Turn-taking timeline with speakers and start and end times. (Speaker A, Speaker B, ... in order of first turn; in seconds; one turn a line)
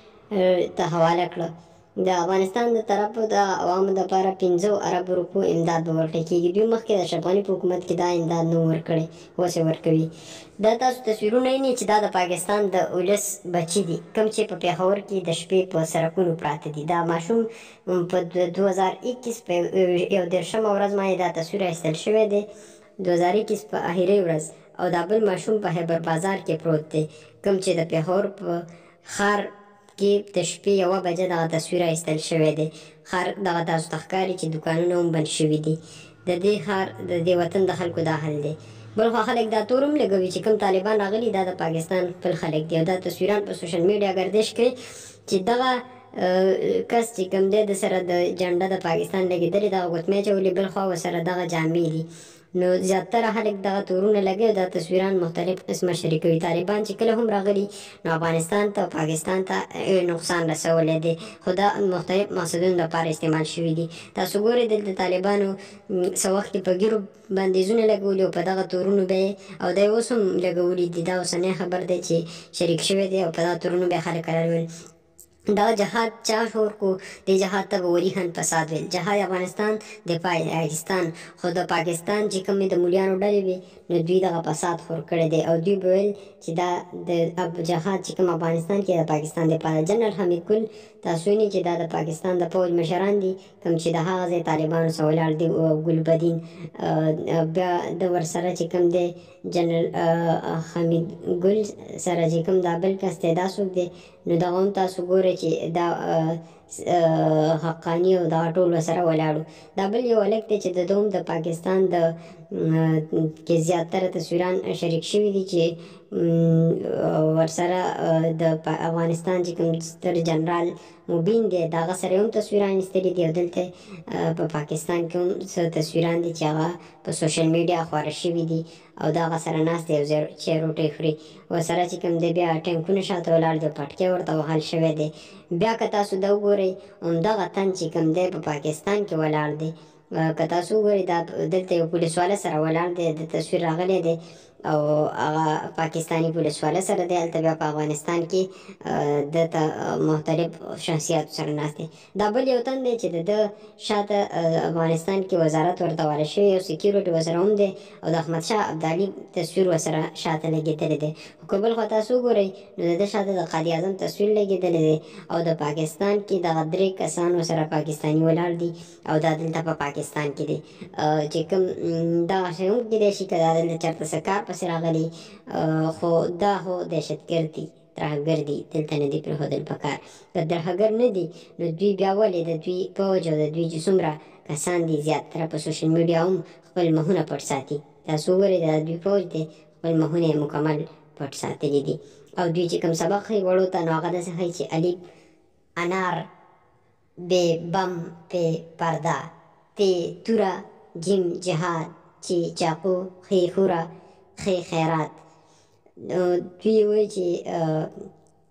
Speaker A: 0.3-22.5
Speaker A: 23.0-44.7
Speaker A: 45.3-74.7
Speaker A: 75.5-195.0
Speaker A: 195.8-196.3
Speaker A: 197.2-205.2
Speaker A: 206.0-208.0